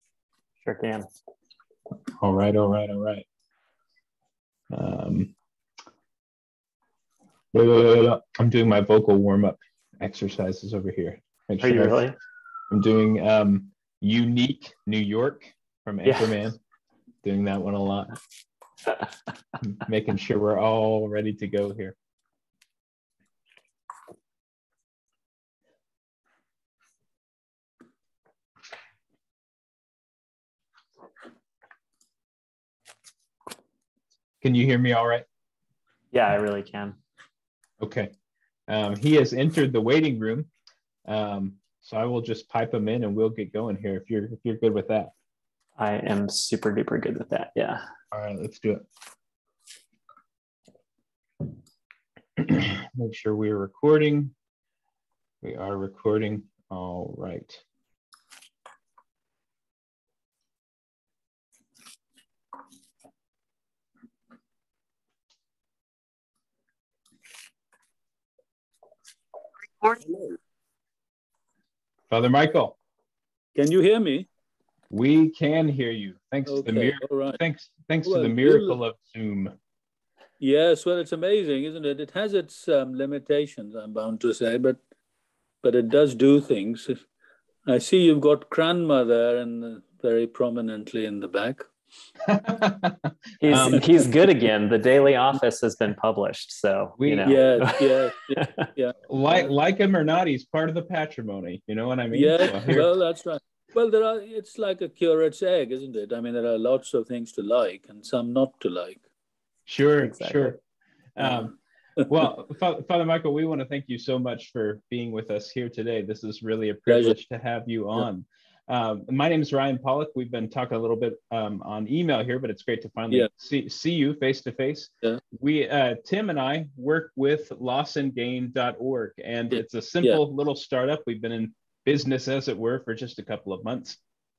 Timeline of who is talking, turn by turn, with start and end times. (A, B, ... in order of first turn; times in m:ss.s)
0:00.6-0:01.1 A
0:02.2-0:03.2 B
0:04.7-0:05.3 B
0:07.5-0:12.0 B
0:11.6-0:12.2 A
0:12.7-0:16.6 B
0:16.0-0:16.3 A
0:17.2-0:18.2 B
0:19.7-0:21.9 B
0:34.4-0:35.2 B
0:36.1-0:37.0 A
0:37.8-0:38.1 B
0:38.7-0:40.5 B
0:41.0-0:45.1 B
0:45.8-0:47.8 A
0:48.1-0:48.8 B
0:52.4-0:54.3 B
0:55.4-0:57.6 B
1:09.9-1:10.3 C
1:12.1-1:12.8 B
1:13.5-1:14.3 C
1:14.9-1:19.5 B
1:16.4-1:17.4 C
1:18.0-1:18.8 C
1:20.4-1:24.8 C
1:25.6-1:27.0 C
1:27.6-1:31.7 C
1:32.3-1:33.9 B
1:33.4-1:38.7 A
1:37.0-1:37.4 B
1:37.2-1:39.5 C
1:39.1-1:42.9 B
1:42.1-1:49.0 C
1:49.7-1:50.6 B
1:50.0-1:50.6 A
1:51.2-2:14.0 B
1:56.9-1:57.2 C